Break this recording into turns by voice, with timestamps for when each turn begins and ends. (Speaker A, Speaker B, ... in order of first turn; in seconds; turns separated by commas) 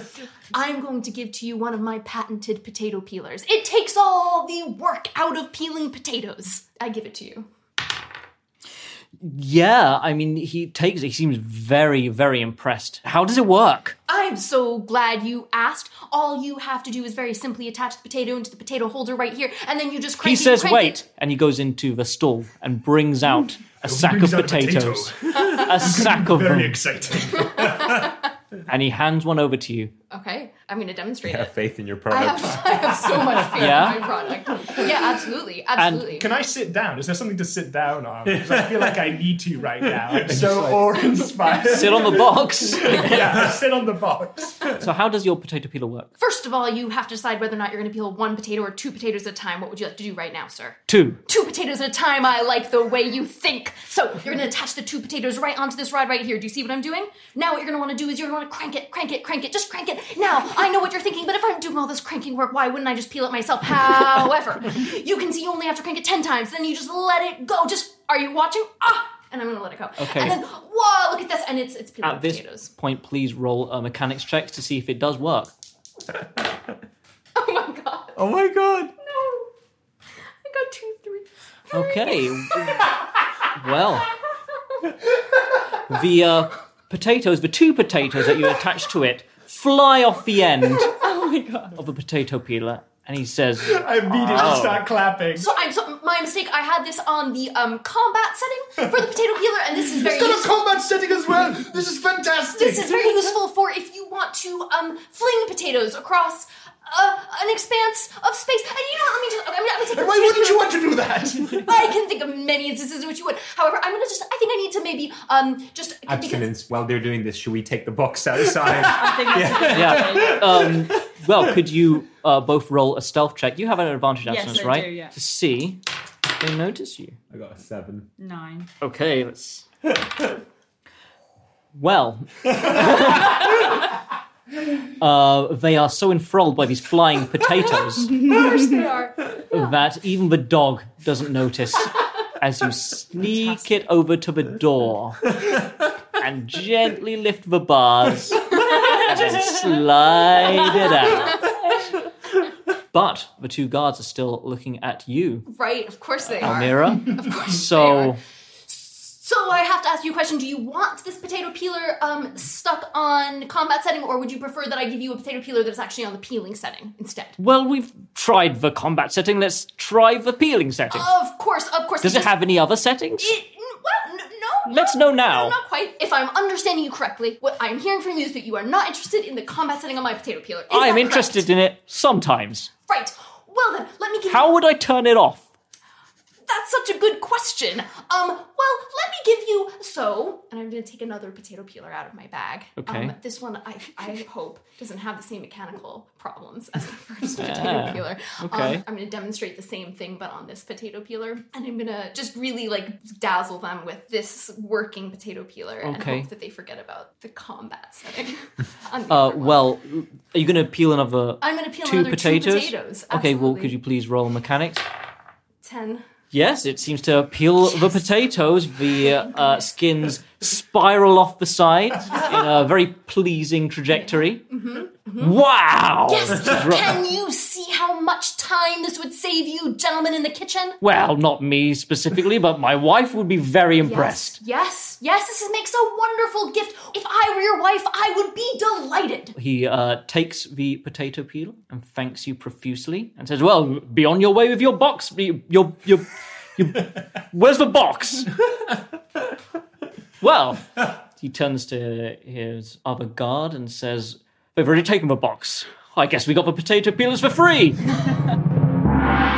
Speaker A: 0.5-7.5, Speaker B: 9.2-13.9, Speaker A: 14.1-21.0, Speaker B: 20.2-26.8, Speaker C: 23.8-28.1, Speaker A: 27.4-28.1, Speaker B: 28.7-29.9, Speaker A: 30.1-31.6, Speaker D: 31.2-33.9, Speaker A: 32.1-36.3, Speaker B: 33.5-34.0, Speaker B: 35.8-36.0, Speaker C: 36.1-44.7, Speaker D: 38.3-39.1, Speaker D: 39.8-41.1, Speaker B: 41.7-43.3, Speaker D: 43.1-43.5, Speaker B: 44.8-46.1, Speaker A: 46.2-72.7, Speaker B: 50.9-51.2, Speaker B: 70.0-70.4, Speaker B: 72.0-75.5, Speaker A: 77.3-78.2, Speaker D: 78.1-78.9, Speaker A: 79.0-79.5, Speaker A: 80.4-82.2, Speaker B: 81.7-82.8, Speaker B: 83.5-84.1, Speaker B: 85.9-90.9, Speaker E: 90.9-91.8, Speaker B: 91.7-94.8, Speaker C: 93.6-95.5, Speaker A: 94.3-94.7, Speaker A: 95.3-100.5, Speaker C: 99.8-103.1, Speaker A: 102.5-110.7, Speaker C: 109.9-111.7, Speaker A: 111.6-116.5, Speaker D: 116.0-121.4, Speaker E: 118.8-120.4, Speaker B: 119.7-127.2, Speaker E: 124.2-125.2, Speaker D: 127.3-128.1, Speaker E: 128.2-128.7, Speaker B: 128.8-129.7, Speaker B: 131.7-133.6, Speaker B: 135.0-138.2, Speaker E: 138.2-138.6, Speaker A: 138.2-139.4, Speaker B: 139.5-145.3, Speaker B: 146.2-151.5, Speaker A: 148.5-149.1, Speaker A: 151.1-151.6, Speaker B: 152.9-155.5, Speaker A: 155.5-167.4, Speaker B: 156.2-158.2, Speaker B: 167.4-171.1, Speaker A: 170.9-172.3, Speaker B: 172.0-173.3, Speaker A: 173.2-181.5, Speaker B: 174.7-175.6, Speaker B: 180.7-182.7, Speaker A: 182.9-184.6, Speaker B: 184.3-185.5, Speaker A: 186.5-209.6, Speaker B: 192.8-193.1, Speaker B: 197.4-198.8, Speaker B: 205.8-206.3, Speaker B: 209.1-214.8, Speaker A: 211.4-213.8, Speaker A: 215.6-216.0, Speaker B: 216.3-224.4, Speaker A: 217.7-218.0, Speaker A: 223.9-225.4, Speaker B: 225.2-227.0, Speaker A: 226.1-230.8, Speaker B: 230.8-234.4, Speaker A: 233.8-239.3, Speaker B: 239.3-248.4, Speaker B: 250.2-257.8